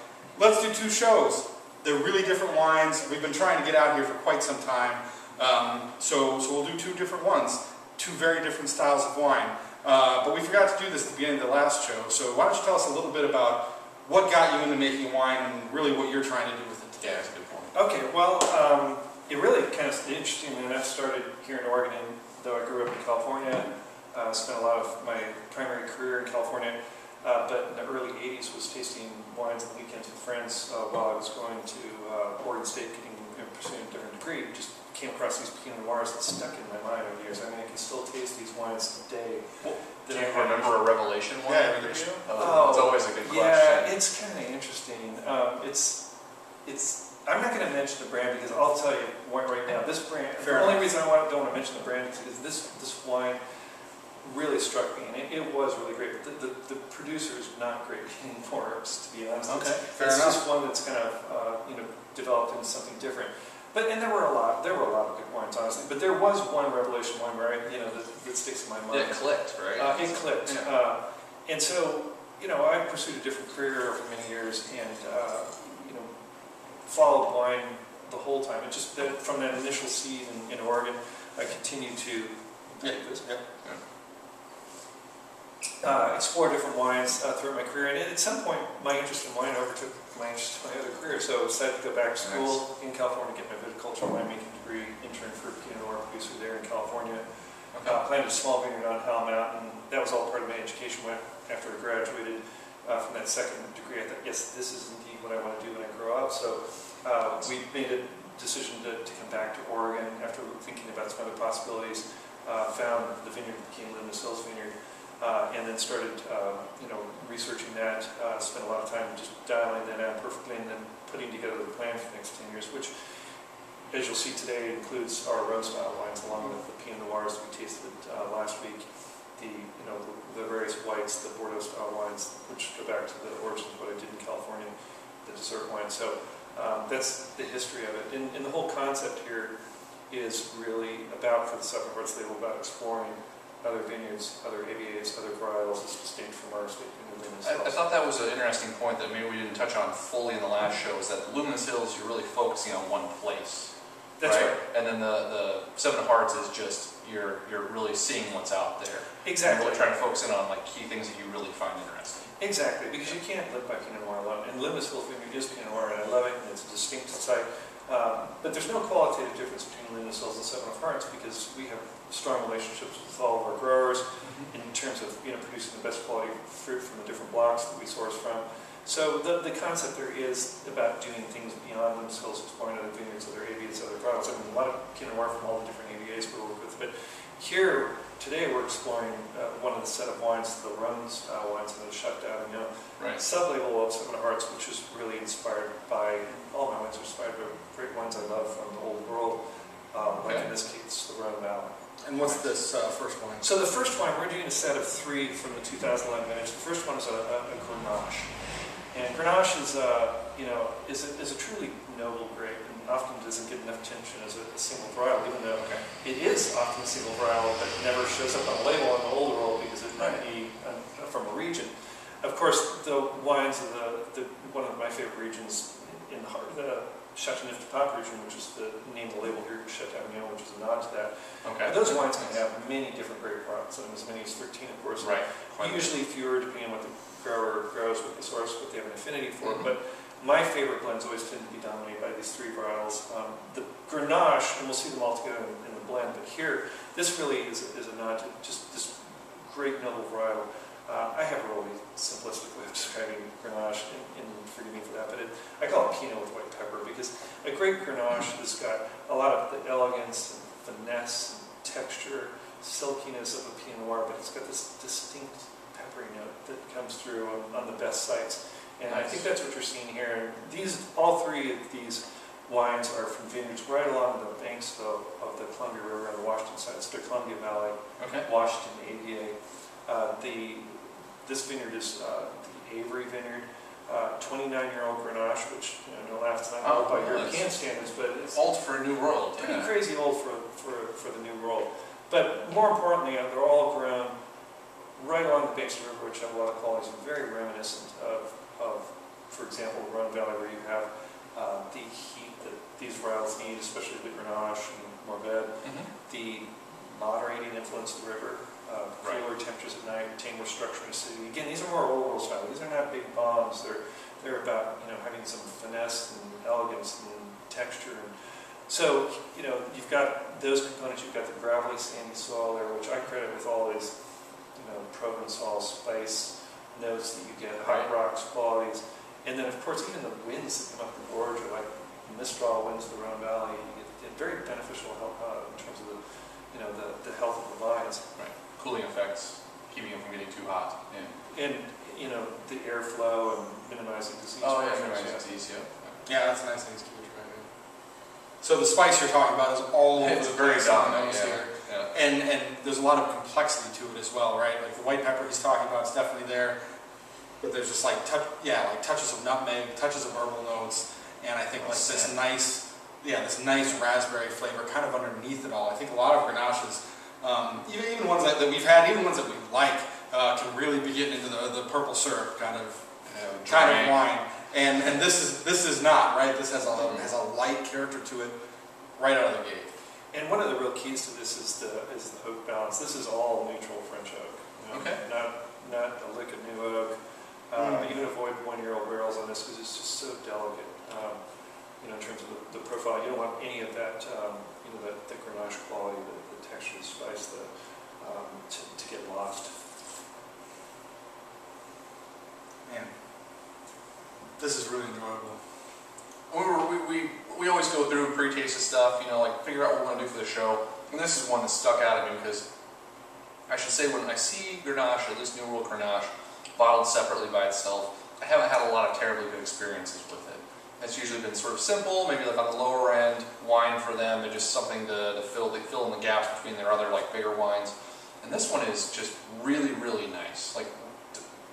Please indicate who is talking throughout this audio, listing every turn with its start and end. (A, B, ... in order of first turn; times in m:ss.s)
0:00.4-0:17.3 A
0:17.0-0:17.7 B
0:17.7-0:40.7 C
0:39.6-0:43.9 B
0:41.5-0:42.2 A
0:42.3-0:46.0 C
0:46.6-0:53.4 C
0:50.4-0:50.8 A
0:54.2-1:16.1 C
0:59.5-0:59.8 B
0:59.9-1:00.4 A
1:08.9-1:10.7 B
1:16.8-1:23.3 C
1:22.8-1:23.4 A
1:25.8-1:37.2 C
1:32.2-1:32.6 B
1:37.7-1:38.0 B
1:37.8-2:02.9 C
2:03.9-2:19.5 C
2:20.1-2:27.8 C
2:27.4-2:33.7 B
2:34.2-2:34.6 C
2:34.2-2:42.3 B
2:39.2-2:39.9 C
2:42.4-3:19.4 C
2:54.2-2:54.5 B
3:19.9-3:21.7 C
3:22.0-3:23.5 A
3:23.4-4:48.4 C
3:35.6-3:35.8 B
3:40.0-3:40.2 B
3:51.4-3:52.3 B
3:55.0-3:55.9 B
4:28.9-4:29.2 B
4:38.0-4:38.3 B
4:46.6-4:47.5 B
4:48.3-4:49.7 B
4:49.4-4:54.2 C
4:55.0-5:24.0 C
5:05.6-5:05.9 B
5:24.5-5:38.1 C
5:27.6-5:27.9 B
5:38.2-5:41.1 B
5:41.2-5:45.2 C
5:44.4-5:46.0 B
5:46.1-5:47.5 A
5:48.4-5:56.6 A
5:50.0-5:51.9 B
5:57.4-6:18.4 A
6:01.6-6:02.1 B
6:13.1-6:14.0 B
6:16.8-6:17.1 B
6:19.0-6:19.7 A
6:20.1-6:26.9 C
6:24.7-6:25.0 B
6:27.5-6:31.2 C
6:27.6-6:27.9 A
6:31.8-6:39.5 C
6:42.7-6:42.9 A
6:44.4-6:45.4 A
6:46.3-6:52.5 B
6:53.5-7:11.2 B